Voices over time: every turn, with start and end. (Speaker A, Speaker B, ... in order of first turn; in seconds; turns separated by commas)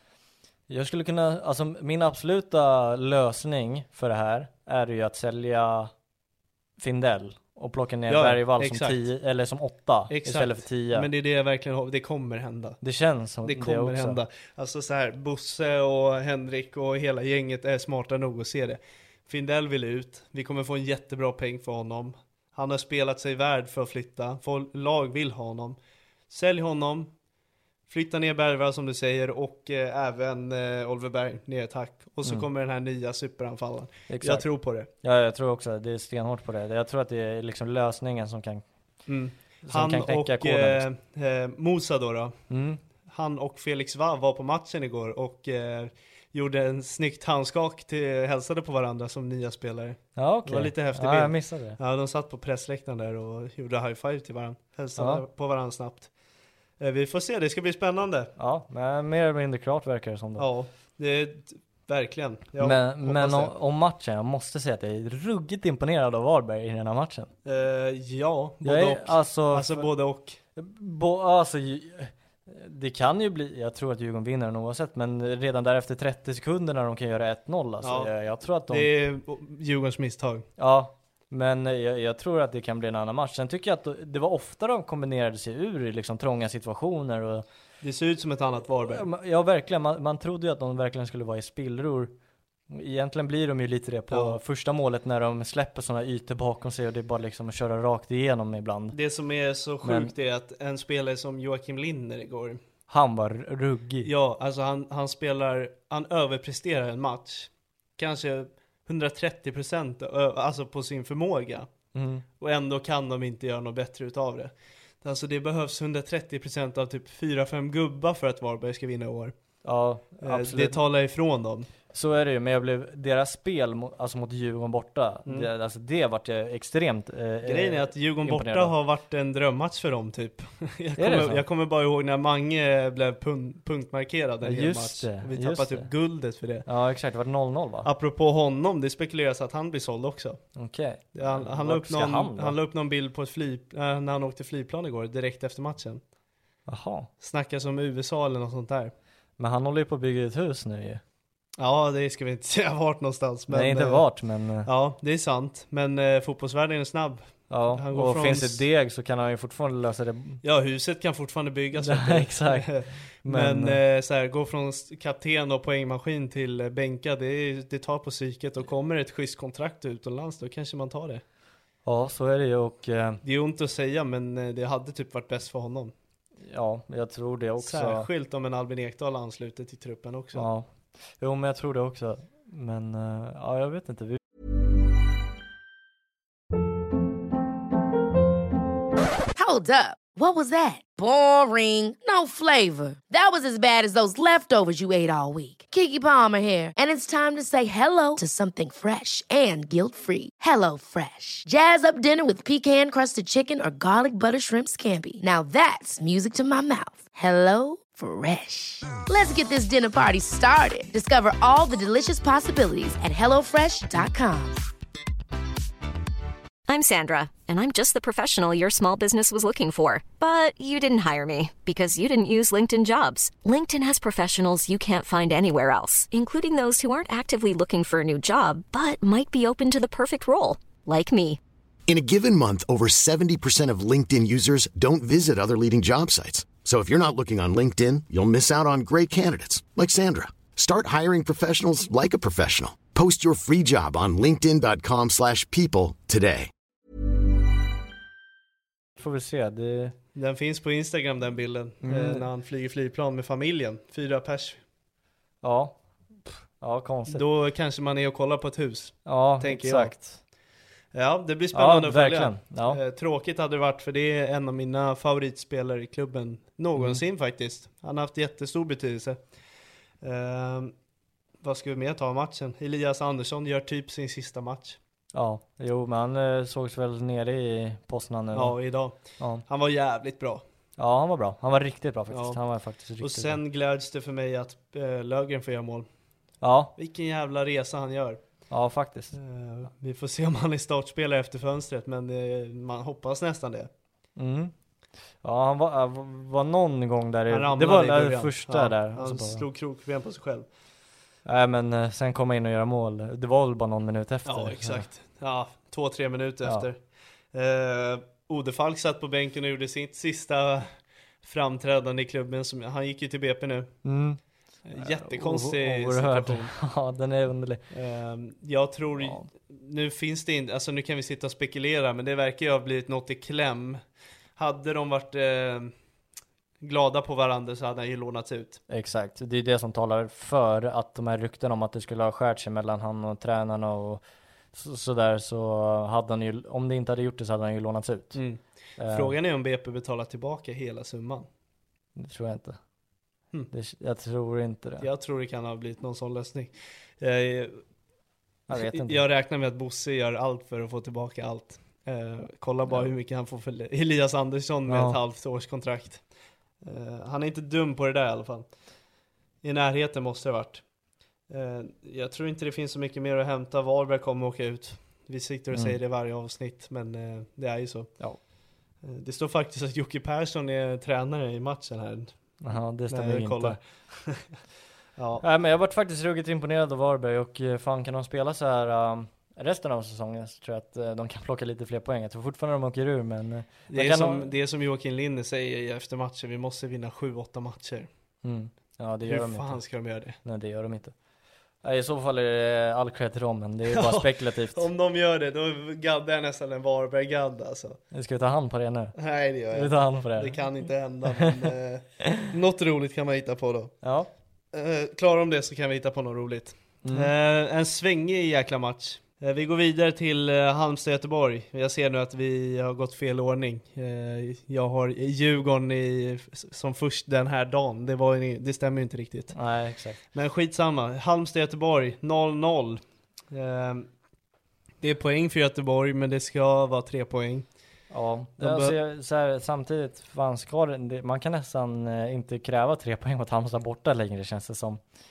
Speaker A: 0.7-5.9, Speaker A: 6.8-11.1, Speaker B: 8.1-9.0, Speaker B: 10.1-12.8, Speaker A: 12.8-14.2, Speaker B: 13.4-25.8, Speaker B: 26.3-27.1, Speaker B: 27.9-34.9, Speaker A: 34.1-38.6, Speaker B: 39.1-42.4, Speaker A: 39.7-40.9, Speaker A: 42.5-42.8, Speaker B: 43.1-56.1, Speaker A: 50.2-51.8, Speaker A: 55.0-55.2, Speaker B: 56.8-58.3, Speaker A: 58.4-60.5, Speaker B: 60.4-63.5, Speaker A: 62.6-67.3, Speaker B: 67.5-70.4, Speaker A: 68.6-69.9, Speaker A: 70.6-78.9, Speaker B: 77.8-78.1, Speaker B: 78.7-80.5, Speaker A: 80.6-87.5, Speaker B: 87.8-89.0, Speaker A: 88.8-92.2, Speaker A: 92.7-99.0, Speaker B: 94.1-94.4, Speaker B: 98.9-102.6, Speaker A: 99.8-100.1, Speaker A: 102.9-104.1, Speaker B: 104.0-111.7, Speaker A: 111.9-112.2, Speaker B: 112.4-119.3, Speaker A: 119.6-120.8, Speaker B: 120.2-121.7, Speaker A: 121.9-128.8, Speaker B: 127.5-136.7, Speaker A: 131.0-131.4, Speaker A: 134.4-135.9, Speaker A: 136.7-137.9, Speaker B: 137.8-140.4, Speaker A: 140.6-142.6, Speaker B: 141.2-146.0, Speaker A: 146.7-147.1, Speaker B: 147.2-148.9, Speaker A: 149.4-151.0, Speaker B: 151.6-154.0, Speaker A: 153.5-154.7, Speaker B: 154.7-158.6, Speaker A: 157.5-160.4, Speaker B: 160.4-171.2, Speaker A: 161.8-163.8, Speaker A: 171.8-173.2, Speaker B: 173.2-175.9, Speaker A: 176.4-178.1, Speaker B: 177.6-180.5, Speaker A: 180.3-180.7, Speaker A: 181.2-184.2, Speaker C: 189.3-214.6, Speaker D: 216.7-231.4, Speaker E: 231.9-246.5, Speaker A: 249.0-250.0, Speaker B: 250.1-254.6, Speaker A: 251.8-252.3, Speaker A: 255.4-257.2, Speaker B: 257.1-259.9, Speaker A: 259.1-260.2, Speaker B: 260.9-269.2, Speaker A: 261.5-262.8, Speaker A: 266.8-267.0, Speaker B: 270.0-270.7, Speaker B: 271.4-274.8, Speaker A: 275.1-278.6, Speaker B: 278.3-280.4, Speaker A: 279.2-279.4, Speaker A: 280.8-283.4, Speaker B: 282.1-282.4, Speaker B: 283.0-285.9, Speaker A: 286.4-286.7, Speaker B: 286.8-288.2, Speaker A: 288.5-289.2, Speaker B: 289.1-293.7, Speaker A: 294.2-294.5, Speaker A: 295.2-299.4, Speaker B: 297.3-300.5, Speaker A: 301.2-304.9, Speaker B: 304.3-306.8, Speaker B: 307.3-310.7, Speaker B: 311.2-313.7, Speaker A: 313.8-314.2, Speaker B: 314.7-316.5, Speaker A: 314.8-317.6, Speaker B: 317.7-323.8, Speaker A: 318.9-319.3, Speaker B: 324.4-325.7, Speaker B: 326.6-328.6, Speaker A: 328.7-334.0, Speaker A: 334.5-338.2, Speaker B: 338.1-341.3, Speaker A: 338.8-339.1, Speaker A: 342.0-342.6, Speaker A: 343.5-344.9, Speaker B: 344.8-347.6, Speaker A: 348.5-349.0, Speaker B: 348.5-356.0, Speaker A: 354.7-355.0, Speaker B: 356.6-358.5, Speaker B: 359.4-360.6, Speaker B: 361.3-367.9, Speaker B: 368.8-372.1, Speaker A: 372.4-373.6, Speaker B: 372.9-374.3, Speaker B: 375.0-375.2, Speaker A: 375.2-384.3, Speaker B: 383.7-387.9, Speaker A: 388.2-389.6, Speaker B: 389.1-390.2, Speaker A: 390.2-390.9, Speaker A: 391.6-394.7, Speaker B: 393.7-397.8, Speaker A: 397.9-399.0, Speaker B: 399.0-403.7, Speaker A: 399.5-400.4, Speaker A: 403.8-404.1, Speaker B: 404.5-419.4, Speaker A: 406.8-407.1, Speaker A: 419.3-420.0, Speaker B: 420.1-423.9, Speaker B: 424.8-427.5, Speaker A: 427.9-434.8, Speaker B: 428.4-428.8